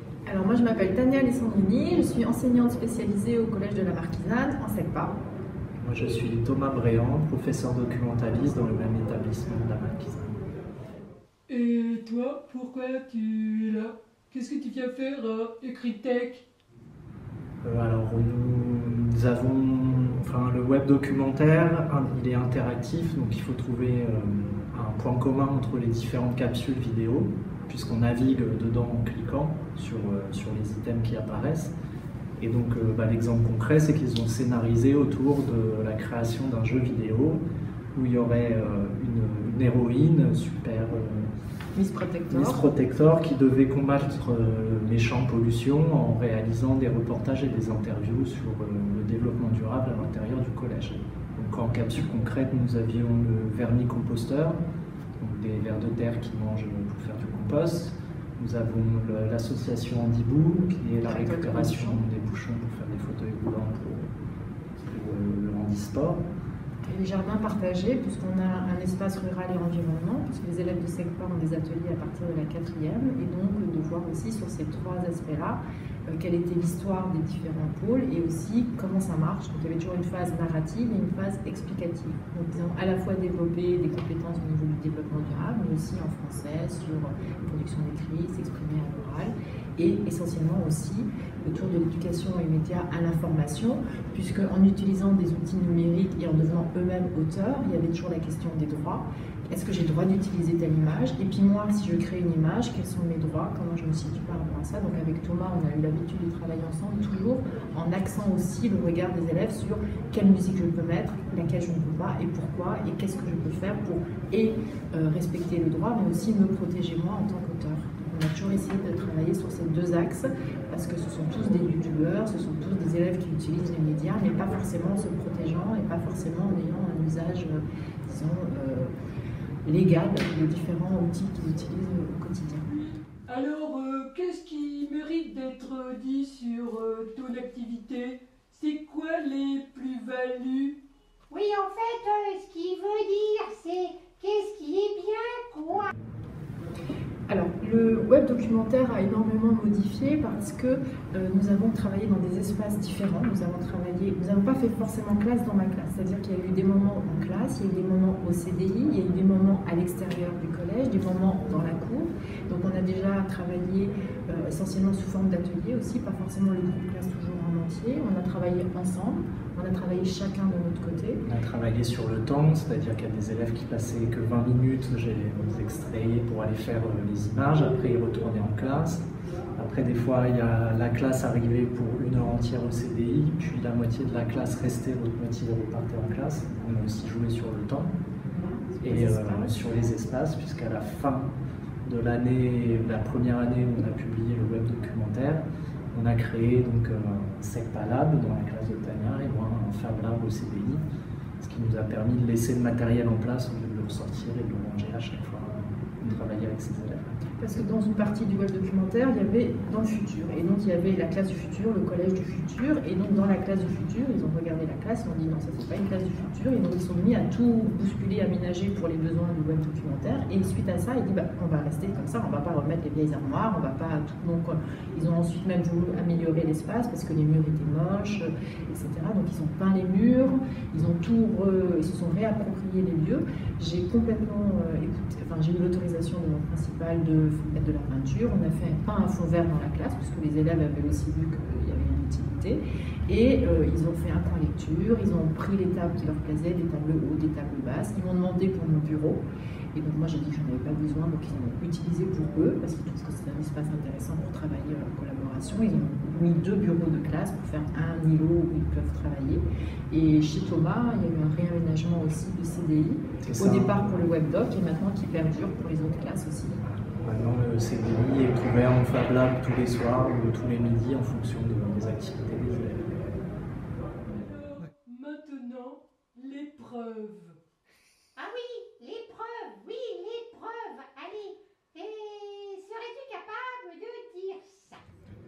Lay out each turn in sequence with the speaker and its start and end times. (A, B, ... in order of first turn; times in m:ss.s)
0:00.2-0:05.2 A
0:05.8-0:10.4 B
0:11.5-0:16.4 C
0:17.6-0:31.7 B
0:32.4-0:37.4 B
0:38.0-0:41.3 B
0:41.8-0:42.6 A
0:42.3-0:54.6 B
0:55.2-1:04.1 B
1:01.0-1:02.0 A
1:04.8-1:06.2 B
1:06.9-2:08.9 A
2:09.7-2:12.7 A
2:12.7-2:20.8 C
2:21.3-2:25.9 D
2:27.3-2:51.2 A
2:51.3-3:07.9 B
3:08.2-3:09.6 A
3:08.8-3:11.3 B
3:11.8-3:20.8 B
3:21.4-3:27.2 B
3:27.4-4:09.2 A
4:09.7-4:26.6 A
4:23.2-4:23.8 B
4:27.0-4:33.0 B
4:34.0-4:37.4 C
4:38.2-4:44.8 D